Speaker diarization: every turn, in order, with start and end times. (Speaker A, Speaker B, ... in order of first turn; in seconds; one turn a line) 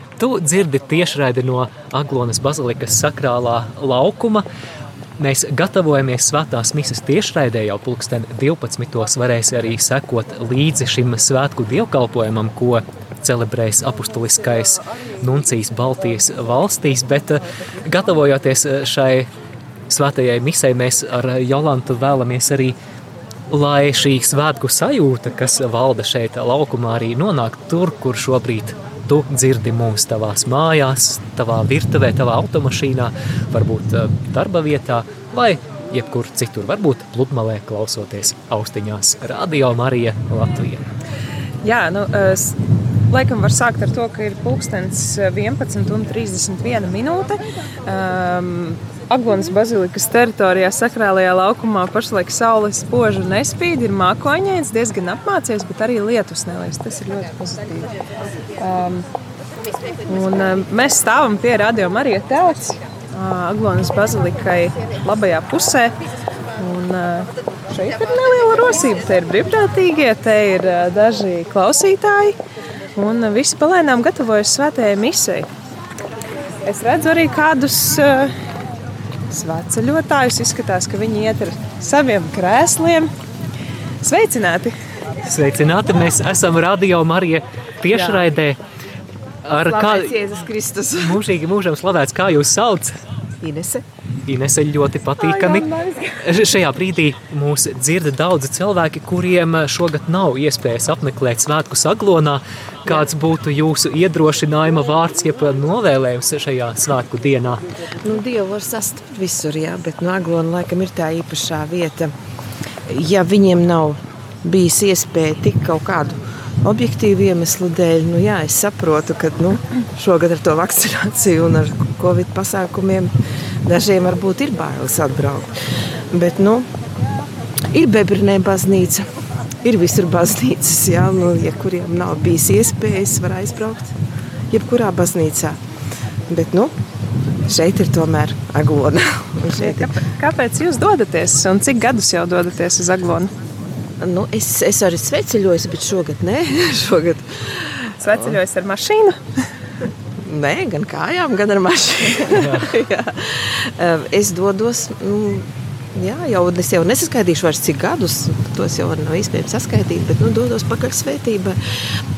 Speaker A: 0.2-4.5
Speaker A: 5.2-19.3
Speaker A: 19.9-22.8
Speaker A: 23.5-40.9
Speaker B: 41.6-42.6
Speaker B: 43.1-57.9
Speaker B: 58.6-59.0
Speaker B: 60.1-65.9
Speaker B: 66.6-72.4
Speaker B: 73.0-75.5
Speaker B: 76.7-78.3
Speaker B: 79.3-83.1
Speaker B: 84.0-84.7
Speaker A: 85.2-88.6
Speaker B: 87.9-88.2
Speaker A: 89.5-90.2
Speaker C: 89.6-91.2
Speaker A: 91.0-92.9
Speaker C: 93.4-93.8
Speaker A: 94.3-95.7
Speaker B: 95.2-96.2
Speaker A: 96.2-107.6
Speaker C: 108.0-112.1
Speaker C: 112.9-123.1
Speaker C: 123.7-125.5
Speaker C: 126.1-126.7
Speaker C: 127.7-129.1
Speaker C: 129.6-133.9
Speaker C: 134.5-135.6
Speaker C: 136.3-136.7
Speaker C: 137.5-139.9
Speaker B: 139.6-143.3
Speaker C: 144.0-147.9
Speaker B: 148.0-149.4
Speaker C: 150.3-161.6